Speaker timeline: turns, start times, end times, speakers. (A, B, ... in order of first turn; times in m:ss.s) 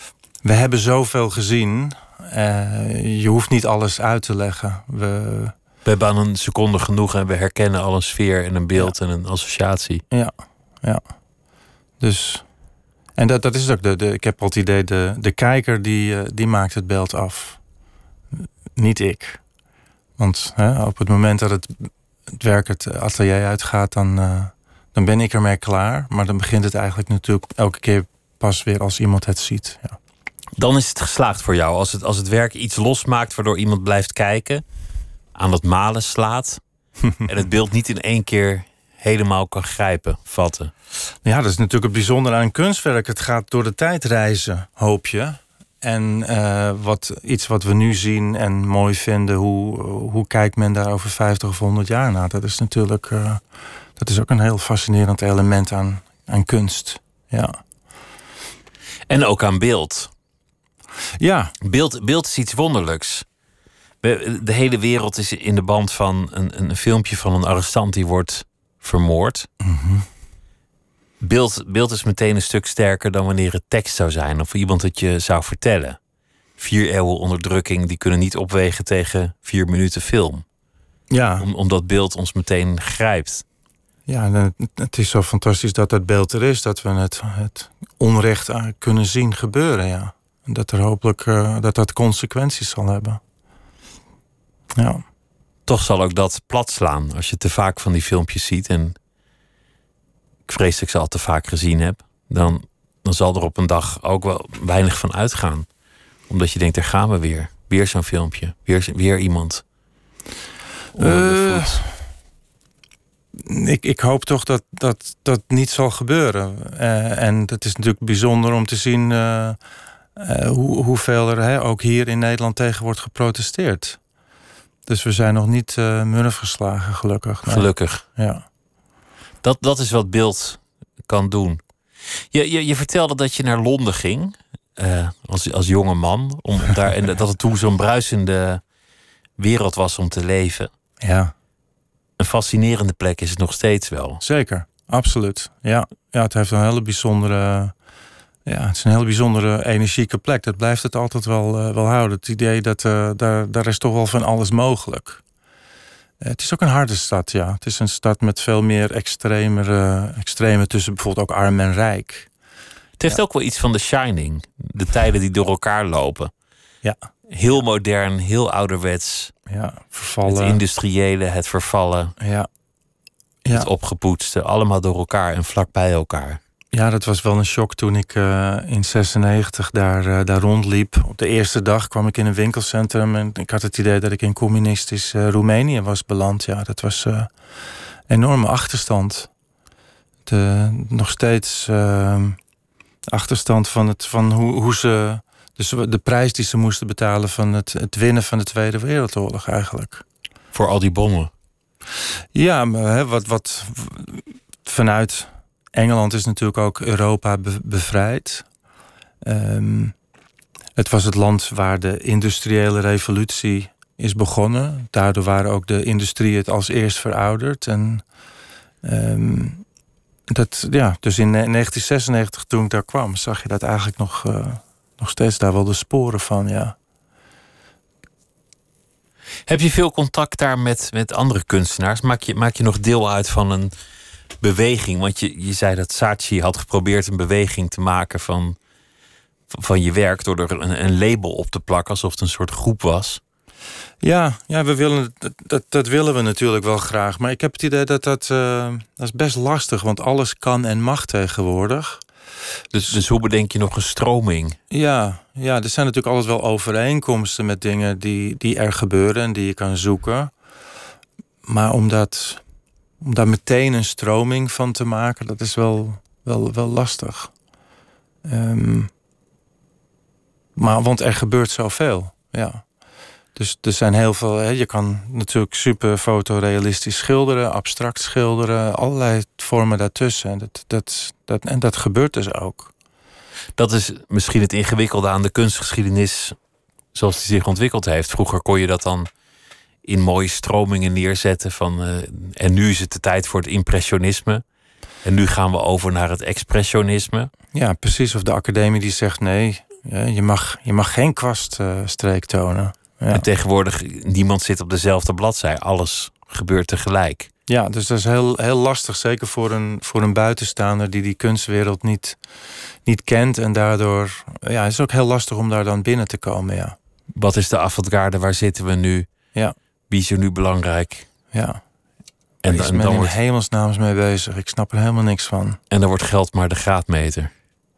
0:00.4-0:05.5 A
0:05.8-0:10.0 B
0:10.1-0:11.0 A
0:12.0-0:12.4 A
0:13.2-0:17.6 A
0:18.4-0:19.4 A
0:20.2-0:30.0 A
0:30.6-0:34.6 B
0:35.3-0:36.6 B
0:37.2-0:40.7 B
0:41.2-0:53.4 A
0:54.0-0:57.6 A
0:59.1-1:00.1 B
1:01.2-1:01.5 A
1:01.6-1:03.2 B
1:04.0-1:09.5 B
1:09.6-1:10.0 A
1:11.2-1:16.0 B
1:16.6-1:20.4 B
1:21.1-1:21.4 A
1:21.4-1:23.4 B
1:24.1-1:33.2 A
1:34.8-1:35.0 A
1:35.6-1:39.0 B
1:40.5-1:45.7 B
1:46.3-1:49.6 B
1:50.9-1:51.8 B
1:51.0-1:51.9 A
1:53.4-1:59.6 A
2:00.2-2:04.0 A
2:04.9-2:08.4 A
2:07.4-2:08.0 B
2:09.4-2:11.6 B
2:12.3-2:18.6 B
2:19.4-2:20.7 B
2:21.0-2:21.3 A
2:22.2-2:24.2 B
2:24.2-2:27.7 A
2:28.5-2:35.2 A
2:36.2-2:42.3 A
2:43.0-2:46.3 B
2:47.3-2:49.3 B
2:49.5-2:50.6 A
2:50.2-2:52.1 B
2:52.2-2:52.5 A
2:53.5-2:56.4 B
2:56.7-3:07.3 A
3:08.1-3:09.3 A
3:10.2-3:12.4 A
3:13.1-3:20.0 A
3:20.5-3:21.3 B
3:22.3-3:28.4 A
3:29.2-3:29.9 A
3:30.8-3:38.0 A
3:38.8-3:39.6 A
3:40.3-3:46.7 A
3:49.4-3:53.7 B
3:54.4-3:58.6 B
3:59.5-4:03.2 B
4:04.0-4:12.0 A
4:12.7-4:14.6 B
4:14.7-4:20.3 A
4:21.4-4:22.4 A
4:23.0-4:27.3 A
4:28.2-4:28.9 A
4:30.6-4:32.6 A
4:33.3-4:42.7 A
4:43.6-4:46.4 B
4:46.9-4:49.1 B
4:49.8-4:54.4 B
4:55.0-4:57.3 B
4:57.5-5:03.2 A
5:03.1-5:07.3 B
5:07.5-5:12.2 A
5:12.8-5:16.8 A
5:17.1-5:19.1 B
5:19.9-5:21.1 B
5:21.3-5:21.6 A
5:22.4-5:25.6 A
5:22.4-5:23.2 B
5:25.7-5:27.3 B